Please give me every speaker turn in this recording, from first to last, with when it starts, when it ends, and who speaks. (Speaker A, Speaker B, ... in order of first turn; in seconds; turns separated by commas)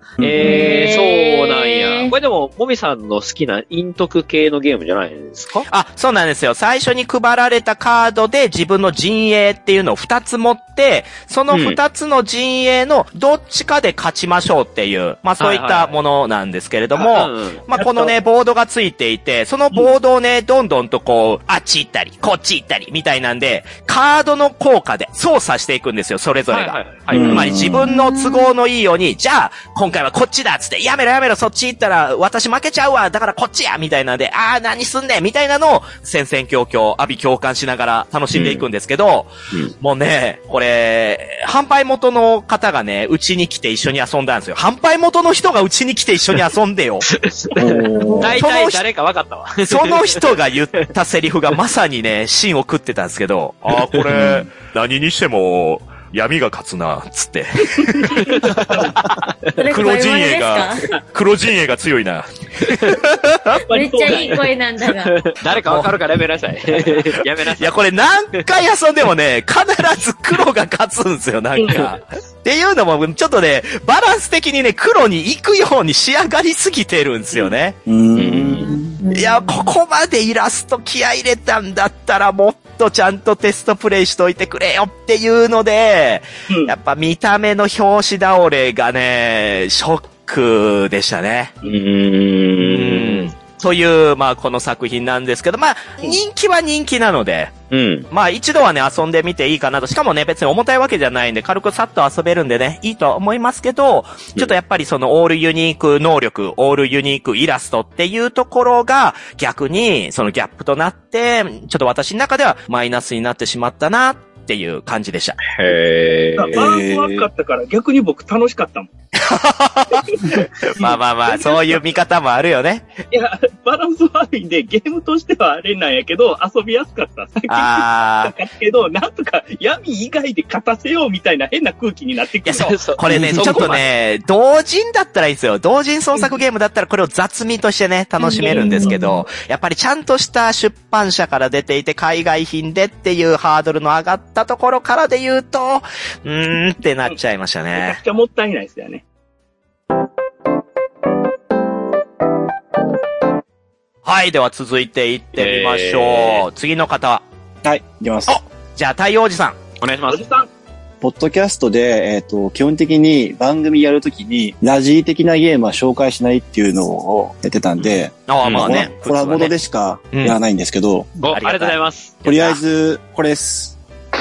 Speaker A: 0.2-0.7, Speaker B: 0.2-5.7, Speaker C: 0.4-2.1, Speaker D: 5.7-47.1, Speaker B: 11.5-11.8, Speaker B: 15.4-16.0, Speaker B: 16.9-18.1, Speaker E: 17.8-18.1, Speaker B: 26.5-27.6, Speaker A: 27.1-27.9, Speaker C: 27.9-28.6, Speaker B: 38.3-38.7, Speaker B: 47.1-50.4, Speaker A: 47.6-48.4, Speaker C: 47.9-48.4, Speaker D: 48.4-48.8, Speaker D: 49.7-63.6, Speaker B: 53.9-54.4, Speaker E: 57.8-59.0, Speaker B: 58.3-58.9, Speaker C: 59.5-60.9, Speaker E: 63.7-64.5, Speaker C: 63.7-65.2, Speaker B: 64.1-64.4, Speaker B: 65.0-67.8, Speaker D: 65.5-65.9, Speaker D: 67.5-77.8, Speaker E: 71.6-71.9, Speaker A: 77.9-79.0, Speaker B: 78.2-78.8, Speaker C: 78.6-79.7, Speaker D: 79.1-91.5, Speaker E: 86.5-86.8, Speaker B: 91.6-93.3, Speaker D: 92.6-97.5, Speaker B: 97.7-98.1, Speaker D: 98.1-115.5, Speaker B: 115.5-116.6, Speaker E: 116.4-118.9, Speaker A: 116.5-117.3, Speaker D: 119.2-122.9, Speaker E: 120.8-121.8, Speaker E: 123.1-132.8, Speaker D: 127.5-128.3, Speaker D: 132.5-148.0, Speaker B: 132.5-133.9, Speaker A: 133.1-133.7, Speaker C: 138.2-139.2, Speaker E: 138.4-139.0, Speaker E: 147.7-149.0, Speaker D: 154.1-157.2, Speaker B: 155.4-156.4, Speaker A: 157.6-158.4, Speaker D: 158.3-159.6, Speaker B: 159.8-160.2, Speaker E: 160.1-160.5, Speaker A: 161.0-171.2, Speaker D: 168.3-169.5, Speaker B: 168.4-168.8, Speaker B: 171.2-172.2, Speaker D: 171.3-172.6, Speaker A: 172.2-173.8